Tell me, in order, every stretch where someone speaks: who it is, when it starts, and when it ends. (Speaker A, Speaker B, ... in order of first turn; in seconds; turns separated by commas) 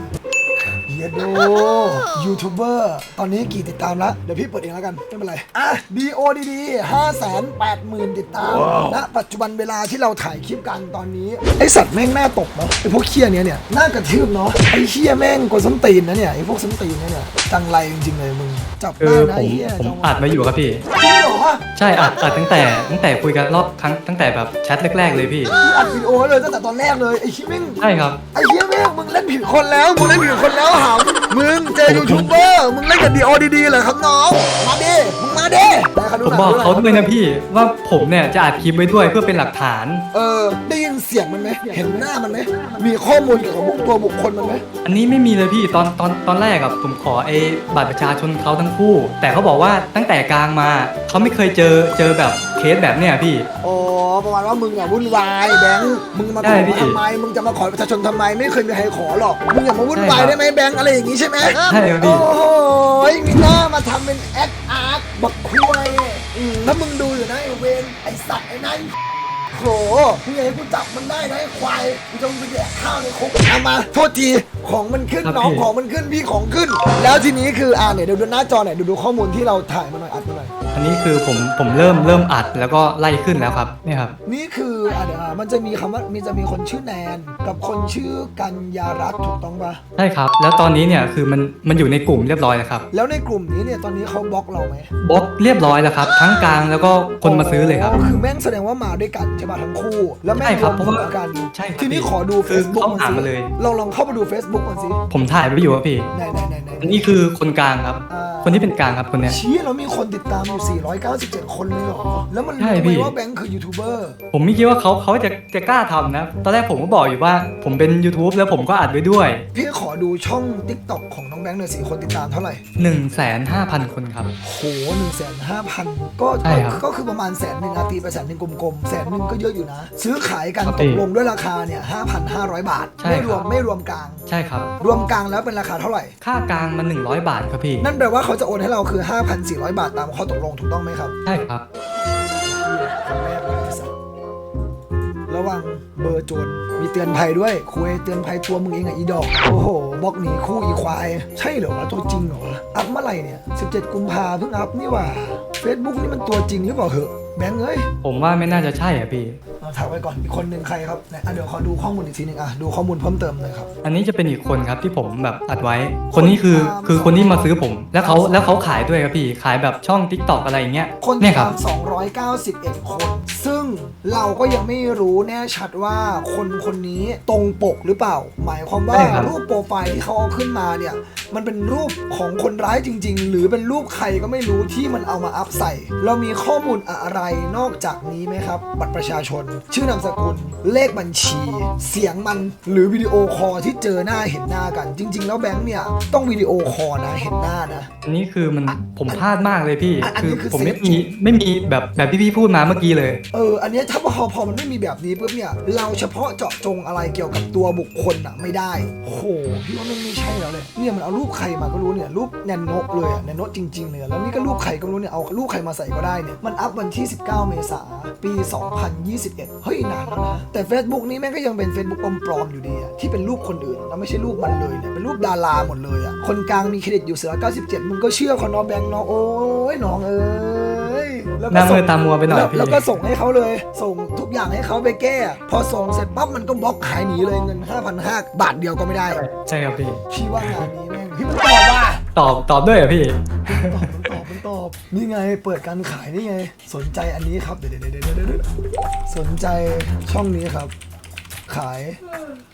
Speaker A: 0.9-21.6, Speaker B: 19.0-20.9, Speaker B: 21.8-25.5, Speaker A: 25.6-27.8, Speaker B: 27.8-28.2, Speaker A: 28.3-37.1, Speaker B: 31.9-32.3, Speaker B: 36.2-40.0, Speaker A: 40.1-44.6, Speaker B: 44.8-53.5, Speaker A: 53.6-68.9, Speaker B: 56.4-57.0, Speaker B: 59.9-60.4, Speaker B: 61.7-62.3, Speaker A: 69.5-80.5, Speaker B: 75.2-75.7, Speaker B: 80.7-84.2, Speaker A: 84.3-89.8, Speaker B: 90.0-92.8, Speaker A: 92.9-94.9, Speaker B: 95.0-98.0, Speaker A: 96.0-96.3, Speaker A: 97.2-105.0, Speaker B: 100.4-103.5, Speaker B: 105.1-106.1, Speaker A: 106.1-107.2, Speaker B: 106.8-109.4, Speaker A: 108.1-108.7, Speaker A: 109.2-114.2, Speaker B: 112.6-113.1, Speaker B: 114.3-119.4, Speaker A: 119.5-122.6, Speaker B: 122.8-124.3, Speaker A: 124.4-134.2, Speaker B: 126.4-126.8, Speaker B: 130.7-131.0, Speaker B: 133.0-133.5, Speaker B: 134.3-134.7, Speaker A: 134.8-136.1, Speaker B: 136.2-137.9, Speaker A: 137.8-141.2, Speaker B: 141.3-141.6, Speaker A: 142.4-143.9, Speaker A: 145.3-157.9, Speaker B: 158.0-159.4, Speaker A: 159.6-163.7, Speaker B: 163.8-171.5, Speaker A: 166.1-167.4, Speaker A: 168.0-168.9, Speaker A: 171.0-197.9, Speaker B: 178.9-179.3, Speaker B: 198.1-203.2, Speaker A: 200.0-201.1, Speaker A: 203.3-239.2, Speaker B: 231.5-232.8, Speaker B: 239.1-240.7, Speaker A: 240.1-242.0, Speaker B: 242.2-244.0, Speaker A: 243.5-248.5, Speaker A: 249.1-250.7, Speaker A: 251.5-252.0